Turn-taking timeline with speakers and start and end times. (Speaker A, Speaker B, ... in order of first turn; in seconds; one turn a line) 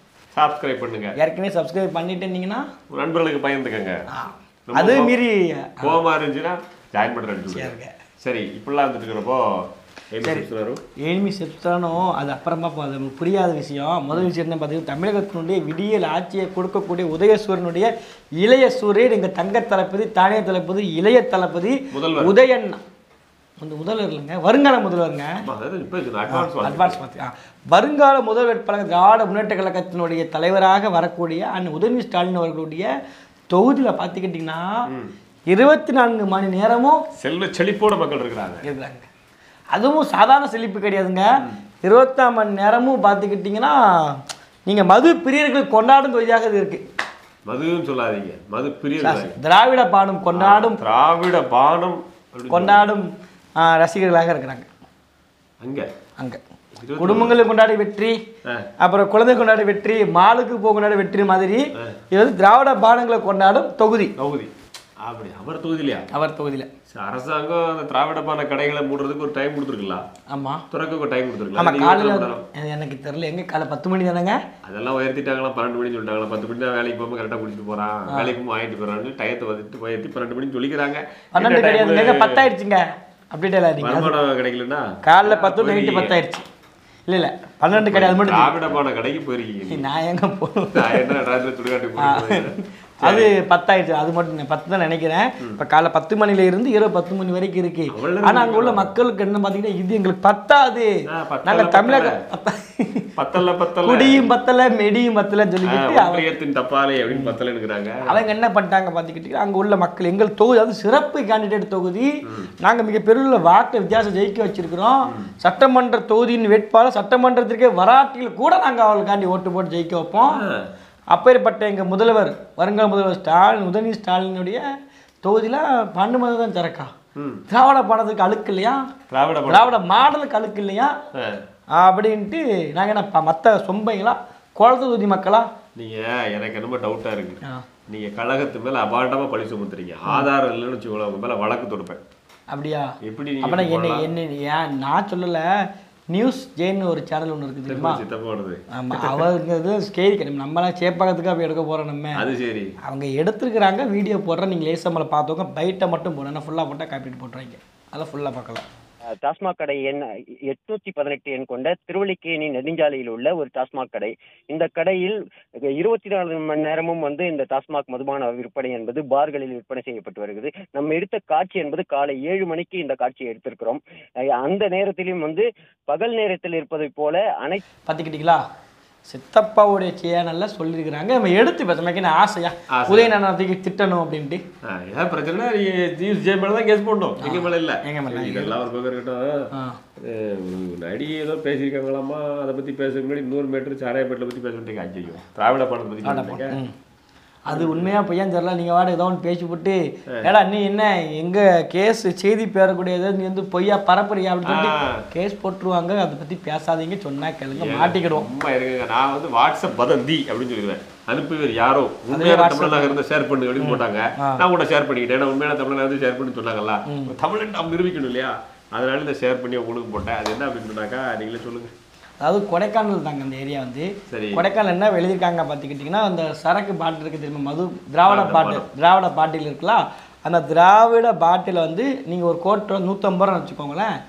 Speaker A: 0.3-1.1
Speaker B: 1.2-2.6
Speaker A: 2.9-4.0
Speaker B: 4.1-6.0
Speaker A: 4.7-5.2
Speaker A: 5.8-10.8
Speaker B: 7.5-8.0
Speaker B: 11.0-17.9
Speaker B: 18.4-22.8
Speaker A: 21.9-22.3
Speaker B: 23.6-25.3
Speaker A: 25.4-27.0
Speaker B: 26.3-32.9
Speaker B: 33.5-34.7
Speaker B: 35.5-37.0
Speaker A: 37.2-38.6
Speaker B: 38.6-39.1
Speaker B: 39.7-41.2
Speaker B: 41.8-46.8
Speaker A: 47.5-49.4
Speaker B: 49.0-50.8
Speaker A: 50.3-52.9
Speaker B: 52.5-54.7
Speaker A: 55.6-55.9
Speaker A: 56.8-57.4
Speaker B: 57.0-58.1
Speaker B: 58.8-64.1
Speaker A: 64.2-64.5
Speaker A: 65.0-66.1
Speaker B: 66.1-66.7
Speaker A: 66.9-70.0
Speaker B: 70.3-70.6
Speaker A: 70.7-72.4
Speaker B: 71.6-74.4
Speaker A: 74.6-82.5
Speaker B: 78.1-78.3
Speaker B: 81.3-84.2
Speaker A: 83.8-86.2
Speaker B: 85.0-86.4
Speaker B: 87.1-88.7
Speaker A: 87.7-89.9
Speaker B: 89.7-91.2
Speaker A: 90.7-93.3
Speaker B: 92.0-100.9
Speaker A: 97.9-98.9
Speaker A: 101.1-102.2
Speaker B: 101.5-103.1
Speaker A: 103.2-104.3
Speaker B: 103.8-106.3
Speaker A: 105.6-108.2
Speaker B: 108.0-112.1
Speaker B: 112.6-120.4
Speaker A: 115.1-115.3
Speaker A: 120.3-120.7
Speaker B: 121.1-124.6
Speaker B: 125.2-126.9
Speaker A: 127.2-127.4
Speaker B: 127.5-128.9
Speaker A: 129.1-129.8
Speaker B: 129.5-130.9
Speaker A: 131.1-131.4
Speaker B: 131.8-135.5
Speaker A: 135.8-142.0
Speaker B: 142.5-142.9
Speaker A: 143.0-144.1
Speaker B: 143.4-145.5
Speaker B: 146.1-148.0
Speaker A: 147.7-149.2
Speaker B: 148.7-152.2
Speaker A: 152.1-152.7
Speaker B: 152.8-158.6
Speaker C: 159.1-165.2
Speaker C: 165.7-177.6
Speaker B: 177.9-178.4
Speaker B: 179.1-184.4
Speaker A: 182.7-183.2
Speaker A: 184.6-189.5
Speaker B: 187.2-188.6
Speaker B: 189.5-189.8
Speaker A: 190.0-196.6
Speaker B: 196.0-196.7
Speaker B: 197.5-208.2
Speaker A: 197.5-197.9
Speaker A: 204.4-205.0
Speaker A: 207.5-221.7
Speaker B: 212.1-213.0
Speaker B: 213.6-214.4
Speaker B: 216.9-217.1
Speaker B: 222.2-233.9
Speaker A: 224.1-224.4
Speaker A: 228.1-228.6